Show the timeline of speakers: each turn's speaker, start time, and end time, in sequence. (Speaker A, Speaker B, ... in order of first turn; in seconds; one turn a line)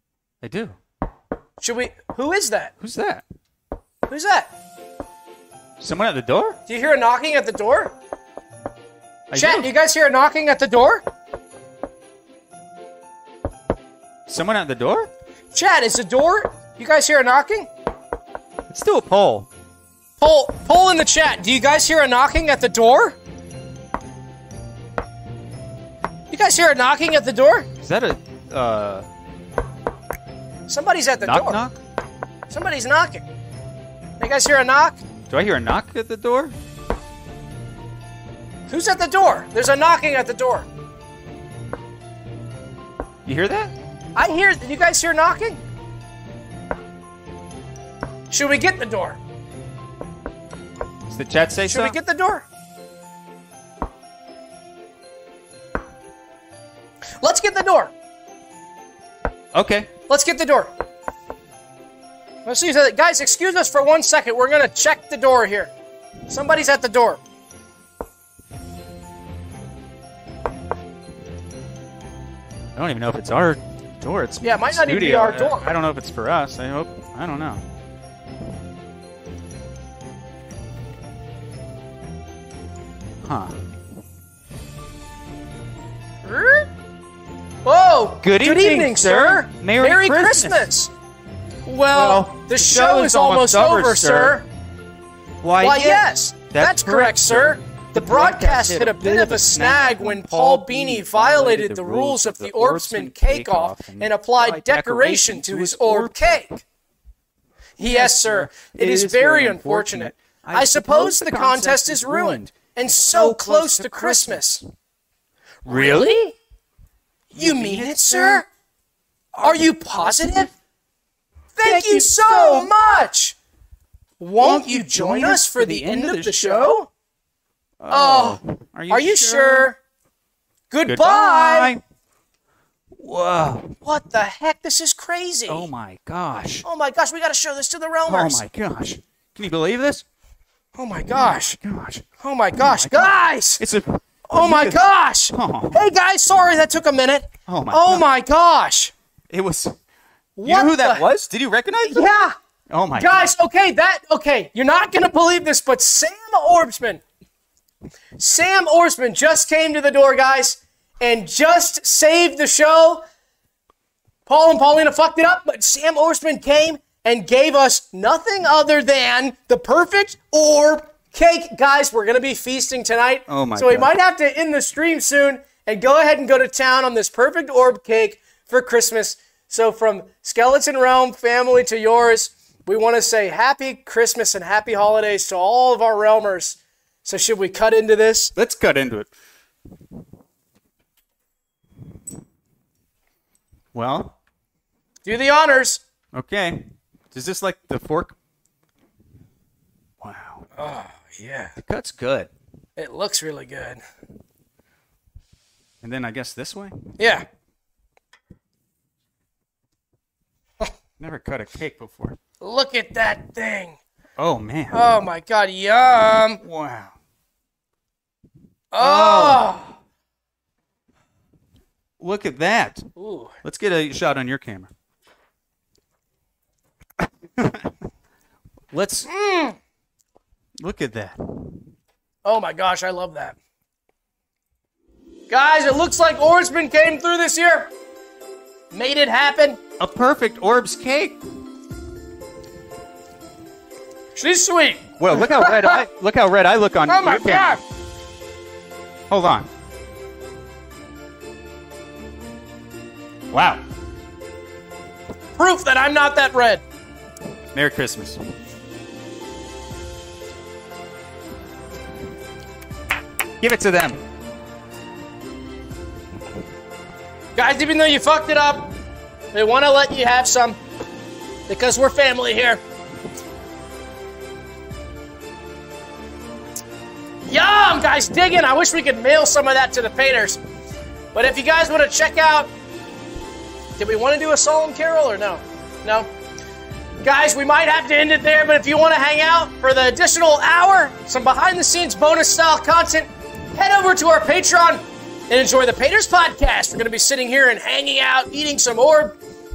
Speaker A: 0.4-0.8
Speaker B: 1.6-2.7
Speaker A: 2.8-3.2
Speaker B: 4.1-4.5
Speaker A: 5.8-6.6
Speaker B: 6.7-7.9
Speaker A: 9.3-9.7
Speaker B: 9.3-11.0
Speaker A: 14.3-15.1
Speaker B: 15.5-17.7
Speaker A: 18.7-19.5
Speaker B: 20.2-23.2
Speaker B: 26.3-27.7
Speaker A: 27.8-29.1
Speaker B: 30.7-31.6
Speaker A: 31.2-31.8
Speaker B: 32.5-33.2
Speaker B: 34.2-35.0
Speaker A: 35.3-36.5
Speaker B: 38.7-40.7
Speaker A: 43.2-43.7
Speaker B: 44.1-45.6
Speaker B: 48.3-49.2
Speaker A: 51.1-52.0
Speaker B: 51.7-52.4
Speaker B: 57.2-57.9
Speaker A: 59.5-59.9
Speaker B: 60.1-60.7
Speaker B: 62.5-65.7
Speaker B: 66.3-67.2
Speaker A: 72.8-77.6
Speaker B: 74.4-75.7
Speaker A: 83.2-83.5
Speaker B: 86.2-86.7
Speaker B: 87.6-90.9
Speaker A: 88.2-90.7
Speaker B: 91.7-94.4
Speaker A: 91.9-94.4
Speaker A: 95.4-106.1
Speaker B: 95.6-106.6
Speaker B: 107.8-114.6
Speaker A: 107.8-112.5
Speaker A: 113.1-114.6
Speaker A: 115.6-116.1
Speaker B: 115.7-116.3
Speaker B: 117.3-118.5
Speaker A: 117.3-118.4
Speaker A: 119.3-120.5
Speaker B: 119.4-120.5
Speaker B: 121.5-123.3
Speaker A: 121.6-122.7
Speaker B: 124.2-126.9
Speaker A: 124.4-126.7
Speaker A: 127.8-129.7
Speaker B: 127.9-129.8
Speaker B: 130.7-131.7
Speaker A: 130.9-131.8
Speaker A: 133.0-133.7
Speaker B: 133.8-135.7
Speaker A: 135.5-136.7
Speaker B: 136.6-138.4
Speaker A: 138.1-140.0
Speaker B: 140.8-141.6
Speaker A: 141.5-142.1
Speaker B: 142.2-143.6
Speaker A: 142.6-144.8
Speaker B: 144.3-148.9
Speaker A: 145.3-145.8
Speaker A: 147.5-148.0
Speaker A: 149.3-149.8
Speaker B: 150.4-151.1
Speaker A: 150.4-152.1
Speaker B: 151.8-152.3
Speaker A: 152.7-153.3
Speaker B: 153.0-157.0
Speaker B: 158.2-163.0
Speaker B: 164.2-188.3
Speaker A: 173.3-173.9
Speaker A: 188.3-189.1
Speaker A: 193.7-194.1
Speaker B: 195.0-195.8
Speaker A: 196.1-198.1
Speaker A: 200.0-200.4
Speaker B: 200.6-201.5
Speaker A: 201.7-202.3
Speaker B: 202.8-203.8
Speaker A: 205.8-206.8
Speaker B: 207.0-207.2
Speaker A: 211.0-212.2
Speaker B: 212.4-213.8
Speaker A: 214.2-214.8
Speaker B: 214.7-216.4
Speaker A: 216.4-216.9
Speaker B: 218.7-219.7
Speaker A: 218.8-219.4
Speaker A: 222.0-222.9
Speaker B: 222.9-223.3
Speaker A: 223.4-224.7
Speaker A: 227.4-227.7
Speaker A: 228.7-229.1
Speaker B: 229.1-229.6
Speaker A: 230.6-231.2
Speaker B: 232.2-233.3
Speaker B: 235.3-237.7
Speaker B: 238.7-239.6
Speaker A: 239.8-241.2
Speaker B: 244.2-245.8
Speaker A: 245.0-247.5
Speaker B: 246.9-247.6
Speaker A: 249.1-249.5
Speaker A: 253.3-253.6
Speaker B: 255.4-256.6
Speaker A: 257.5-258.2
Speaker A: 263.4-264.0
Speaker B: 267.4-268.7
Speaker B: 269.3-270.6
Speaker B: 271.5-272.6
Speaker B: 277.3-280.4
Speaker B: 281.1-282.5
Speaker B: 283.8-286.1
Speaker B: 287.0-299.1